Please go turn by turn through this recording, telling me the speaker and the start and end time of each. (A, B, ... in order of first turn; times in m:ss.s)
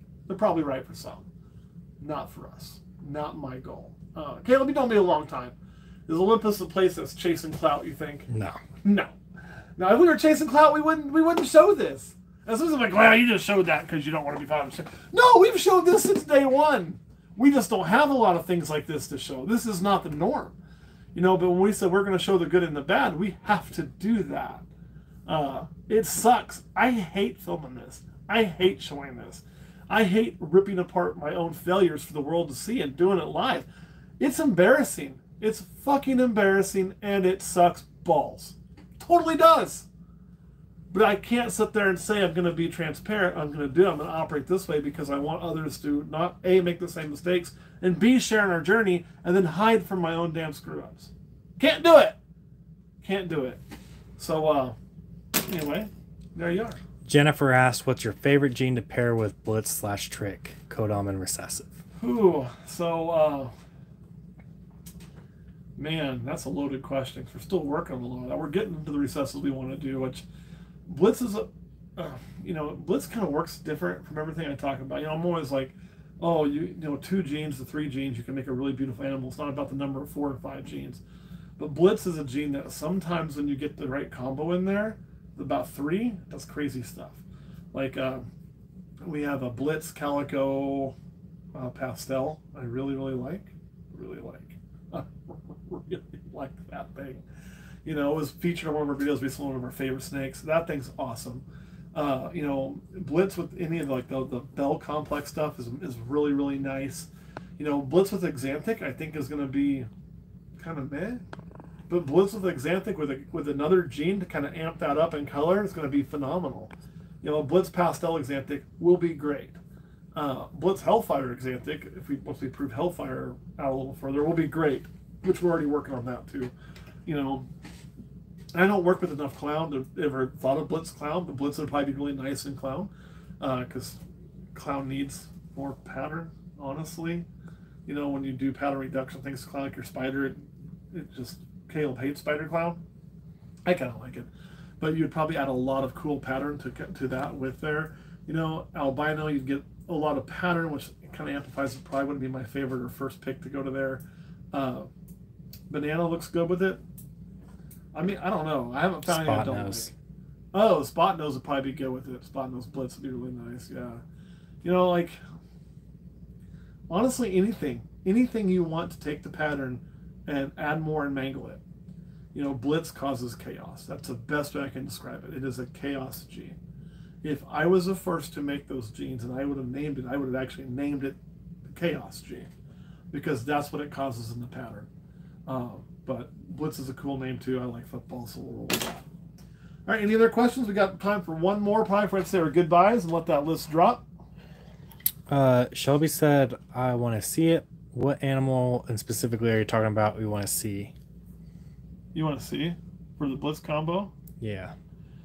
0:00.3-0:01.2 A
0:02.0-0:05.6 A
0:06.1-0:08.3 A
0:08.3-0:08.6 B
0:08.8-0:09.1 A
0:09.8-0:20.6 A
0:21.1-0:24.6 A
0:25.2-0:33.7 A
0:34.2-0:39.9 A
0:40.9-0:52.2 A
0:53.0-0:53.6 A
0:54.2-0:54.8 A
0:55.4-0:56.8 A
0:57.0-1:01.8 B
1:02.0-1:03.5 A
1:05.8-1:10.2 A
1:10.9-1:21.0 A
1:21.6-1:27.2 A
1:27.7-1:28.2 A
1:29.0-1:31.0 A
1:31.5-1:37.2 A
1:37.8-1:49.9 A
1:50.6-1:51.2 A
1:51.9-1:59.6 A
2:00.1-2:06.5 A
2:07.0-2:07.5 A
2:08.5-2:14.0 A
2:14.5-2:17.2 A
2:17.8-2:20.4 A
2:20.9-2:22.8 A
2:23.6-2:24.3 A
2:24.8-2:34.9 A
2:35.7-2:36.8 A
2:37.9-2:39.9 A
2:39.0-2:39.9 B
2:40.5-2:44.0 A
2:44.6-2:45.2 A
2:46.9-2:51.6 A
2:52.3-2:56.6 A
2:57.2-3:02.5 A
3:03.1-3:04.9 A
3:05.5-3:09.0 A
3:09.9-3:14.0 A
3:15.3-3:20.9 B
3:22.1-3:24.1 A
3:24.4-3:24.7 B